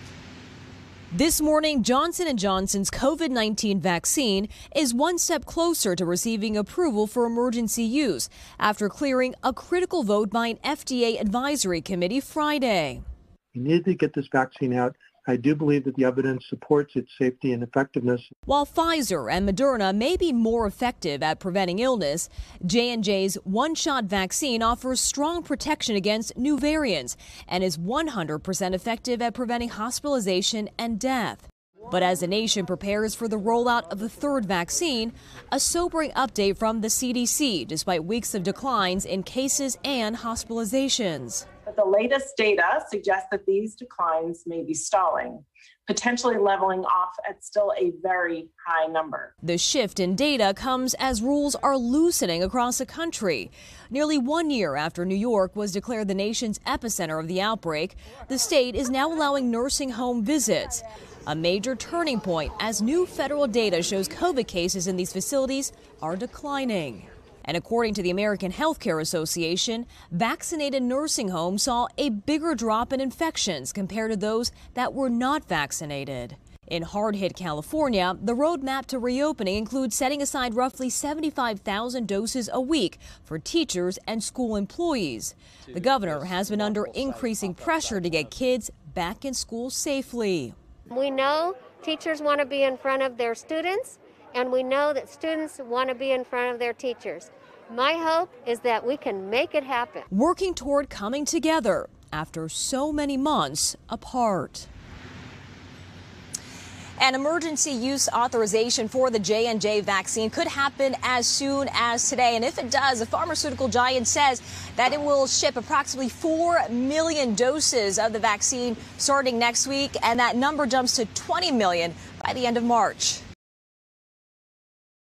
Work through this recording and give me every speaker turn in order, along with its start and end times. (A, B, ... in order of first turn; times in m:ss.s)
0:01.1-0:13.0 A
0:13.5-0:18.2 B
0:18.5-0:41.4 A
0:41.7-0:49.3 C
0:49.4-1:30.6 A
1:30.9-1:40.1 D
1:40.1-1:44.7 A
1:47.0-2:03.2 A